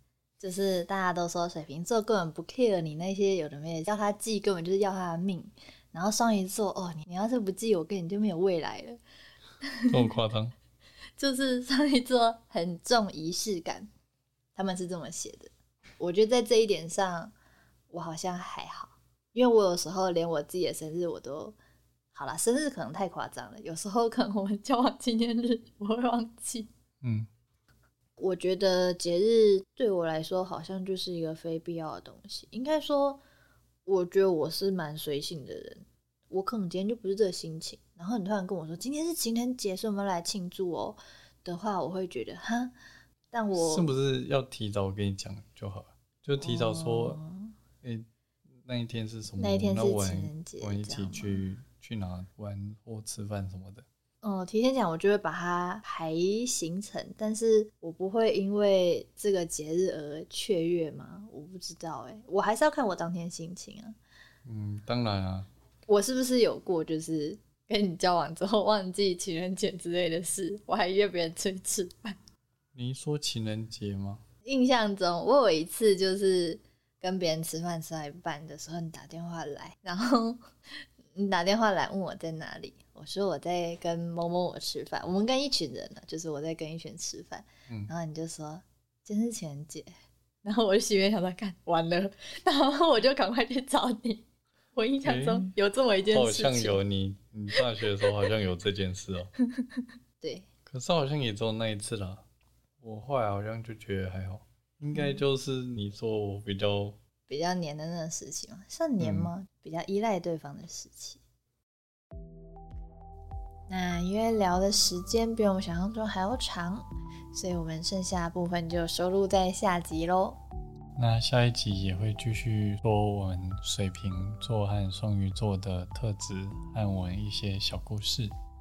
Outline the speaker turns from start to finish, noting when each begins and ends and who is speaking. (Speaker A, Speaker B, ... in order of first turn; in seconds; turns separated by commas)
Speaker A: 0.4-9.0, Speaker A: 9.6-10.0, Speaker B: 9.9-10.5, Speaker A: 11.2-13.9, Speaker A: 14.6-17.3, Speaker A: 17.9-21.6, Speaker A: 22.1-26.7, Speaker B: 27.0-27.3, Speaker A: 28.2-33.2, Speaker A: 33.8-42.7, Speaker A: 43.3-43.9, Speaker B: 43.5-47.2, Speaker A: 46.4-47.5, Speaker B: 48.6-53.9, Speaker A: 49.4-51.4, Speaker A: 54.2-64.0, Speaker B: 64.4-65.5, Speaker A: 65.9-72.2, Speaker B: 72.7-74.2, Speaker A: 74.4-89.9, Speaker A: 90.4-94.2, Speaker A: 94.7-96.8, Speaker B: 95.0-95.5, Speaker B: 96.1-99.3, Speaker A: 99.5-100.5, Speaker B: 100.7-102.2, Speaker B: 102.8-107.0, Speaker A: 104.9-105.2, Speaker A: 107.3-111.2, Speaker B: 109.0-109.3, Speaker A: 113.7-120.4, Speaker B: 121.0-128.3